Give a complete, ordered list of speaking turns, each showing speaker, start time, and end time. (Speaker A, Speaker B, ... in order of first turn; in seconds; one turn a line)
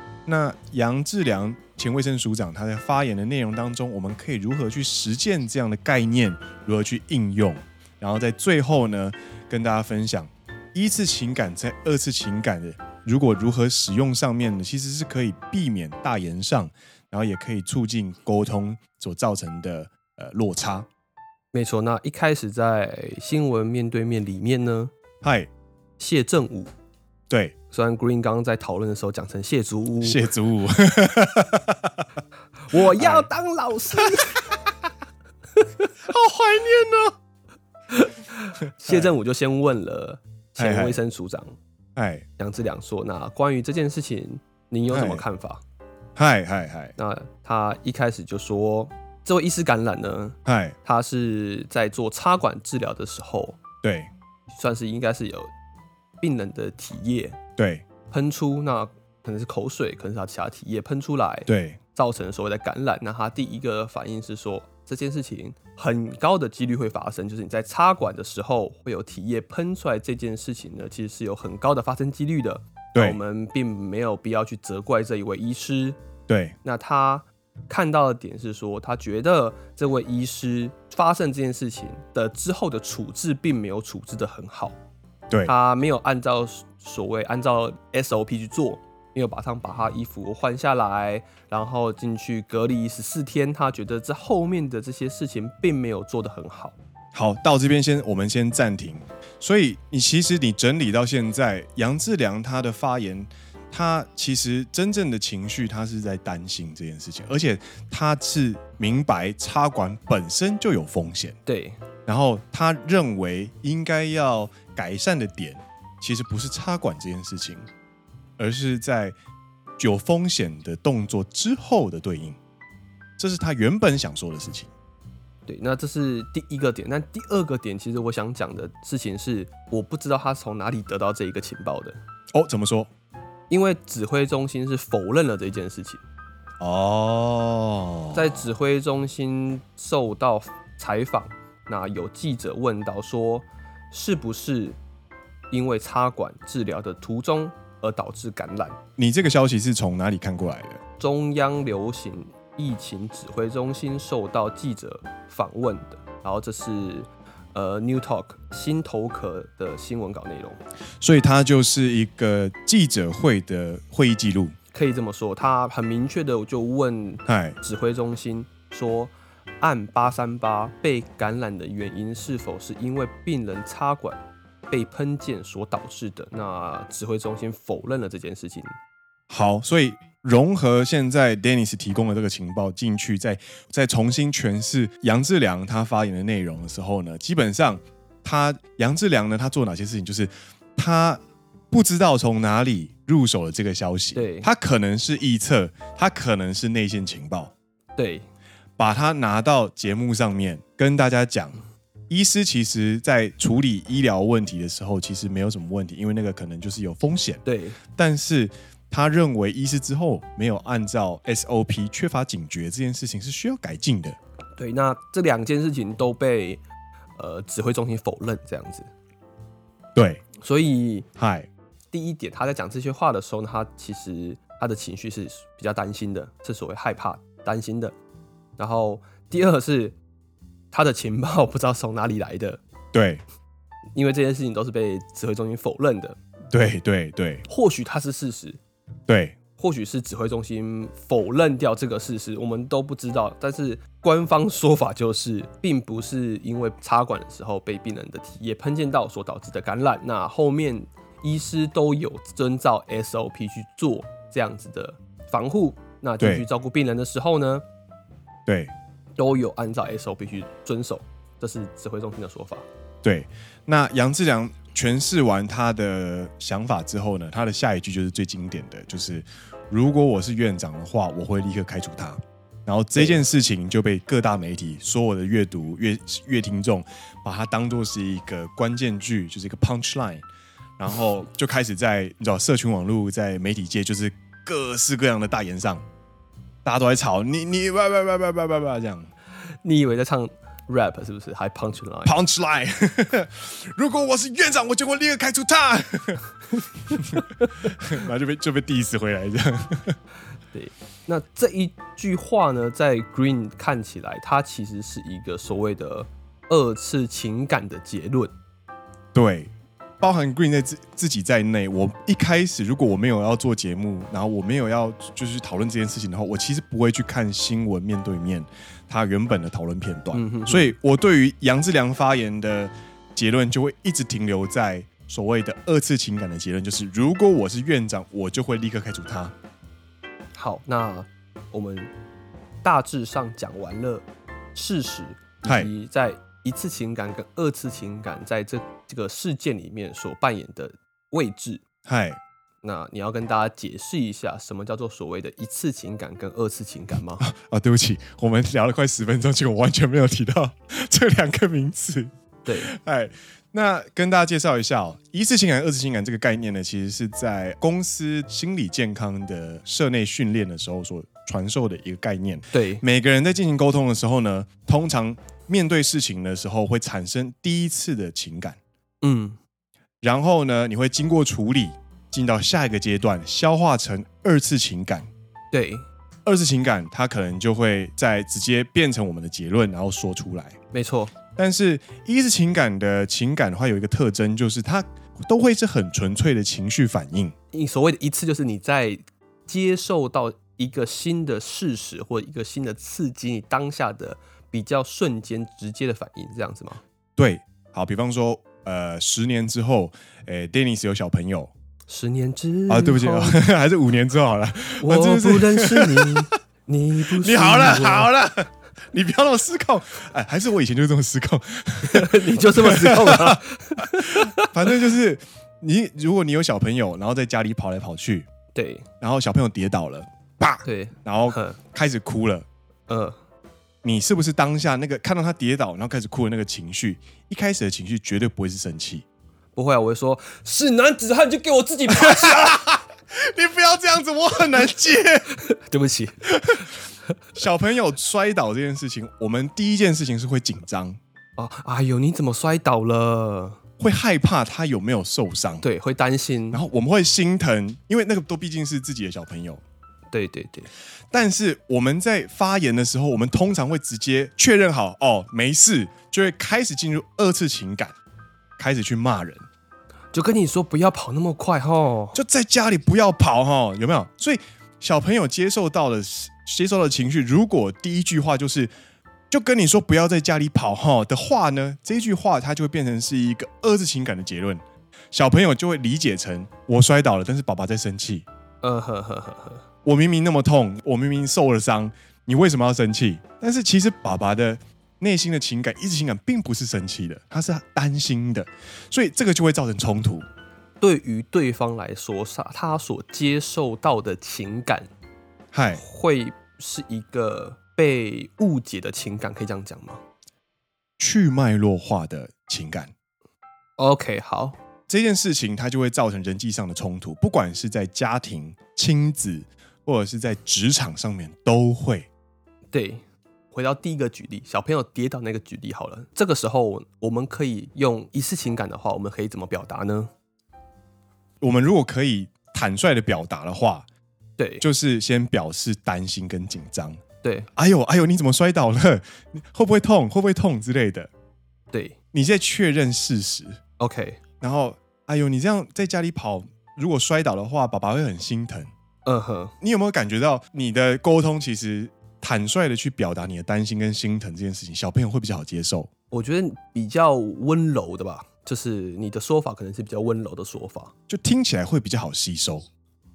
Speaker A: 0.2-20.9
Speaker B: 21.5-24.9
Speaker A: 25.2-25.5
Speaker B: 26.0-26.7
Speaker A: 27.3-27.5
Speaker B: 27.7-30.3
Speaker A: 30.0-32.0
Speaker B: 32.7-34.5
Speaker A: 32.8-33.3
Speaker A: 34.0-34.5
Speaker A: 36.1-37.1
Speaker B: 37.9-41.5
Speaker A: 38.8-39.1
Speaker A: 40.6-41.0
Speaker A: 42.0-42.2
Speaker B: 42.4-45.6
Speaker A: 44.9-45.2
Speaker A: 46.1-46.9
Speaker B: 47.0-53.6
Speaker A: 50.5-50.8
Speaker A: 53.8-54.1
Speaker B: 54.5-55.5
Speaker B: 56.2-57.4
Speaker A: 57.6-57.8
Speaker B: 58.1-76.0
Speaker A: 61.5-61.8
Speaker A: 72.9-73.2
Speaker A: 76.3-76.5
Speaker B: 76.6-84.8
Speaker B: 85.4-96.8
Speaker A: 97.1-111.4
Speaker B: 111.5-111.8
Speaker A: 112.1-117.7
Speaker A: 118.4-119.2
Speaker A: 119.8-122.4
Speaker A: 123.2-124.7
Speaker B: 125.5-132.0
Speaker A: 132.3-132.9
Speaker B: 133.5-136.0
Speaker A: 136.6-138.2
Speaker B: 138.1-144.8
Speaker B: 145.5-148.8
Speaker A: 149.0-150.8
Speaker B: 151.0-160.6
Speaker A: 161.0-164.6
Speaker B: 164.7-178.8
Speaker A: 167.3-167.6
Speaker A: 179.3-191.2
Speaker A: 191.7-197.5
Speaker B: 194.2-194.5
Speaker B: 198.0-198.2
Speaker A: 198.8-207.4
Speaker B: 207.4-207.8
Speaker A: 207.9-214.2
Speaker B: 214.6-216.6
Speaker B: 217.2-218.9
Speaker A: 219.9-220.2
Speaker B: 220.4-221.1
Speaker A: 221.2-221.5
Speaker B: 221.9-227.9
Speaker B: 228.6-229.9
Speaker B: 230.7-232.6
Speaker A: 232.9-233.2
Speaker B: 233.9-236.2
Speaker A: 236.5-237.4
Speaker B: 237.5-238.6
Speaker A: 239.1-239.4
Speaker B: 239.6-257.6
Speaker A: 258.4-258.7
Speaker B: 259.2-262.6
Speaker A: 263.0-280.2
Speaker B: 272.9-273.2
Speaker A: 280.8-285.9
Speaker A: 286.6-289.1
Speaker B: 289.6-292.1
Speaker A: 292.1-296.3
Speaker A: 296.9-300.0
Speaker B: 300.5-308.3
Speaker A: 309.1-329.3
Speaker B: 320.1-320.7
Speaker B: 330.3-331.9
Speaker B: 332.6-341.6
Speaker A: 335.4-335.7
Speaker A: 341.8-342.2
Speaker B: 342.6-347.2
Speaker A: 347.2-368.6
Speaker B: 352.4-352.7
Speaker B: 362.5-362.8
Speaker B: 369.0-369.4
Speaker A: 370.0-375.1
Speaker B: 375.5-375.8
Speaker A: 376.2-380.6
Speaker B: 380.7-381.1
Speaker A: 381.4-387.3
Speaker B: 387.5-396.8
Speaker A: 397.2-401.5
Speaker B: 401.9-403.4
Speaker A: 402.7-406.3
Speaker B: 404.8-408.1
Speaker A: 407.1-418.3
Speaker B: 411.8-414.7
Speaker B: 418.5-418.9
Speaker A: 419.0-422.4
Speaker B: 420.6-421.6
Speaker B: 422.9-423.2
Speaker A: 423.8-429.0
Speaker B: 429.6-432.6
Speaker A: 431.9-435.3
Speaker B: 435.3-436.3
Speaker A: 436.3-436.7
Speaker A: 437.3-441.0
Speaker B: 441.4-443.6
Speaker A: 443.8-445.6
Speaker B: 445.6-446.6
Speaker A: 446.5-449.6
Speaker B: 450.1-450.7
Speaker A: 451.1-457.9
Speaker A: 458.6-459.4
Speaker B: 460.1-462.2
Speaker A: 462.1-468.7
Speaker A: 469.3-478.2
Speaker B: 478.6-479.6
Speaker A: 479.8-490.2
Speaker B: 490.8-494.9
Speaker A: 495.5-495.8
Speaker B: 495.7-500.0
Speaker A: 501.0-502.9
Speaker B: 503.8-504.6
Speaker A: 504.9-512.1
Speaker B: 512.7-520.1
Speaker A: 521.4-523.9
Speaker B: 524.4-524.6
Speaker A: 524.6-527.0
Speaker B: 527.2-527.5
Speaker A: 527.5-531.1
Speaker B: 531.7-532.0
Speaker A: 532.1-533.6
Speaker B: 533.8-534.2
Speaker A: 534.4-538.7
Speaker B: 539.0-539.5
Speaker A: 539.6-545.9
Speaker B: 546.1-550.9
Speaker A: 551.1-552.7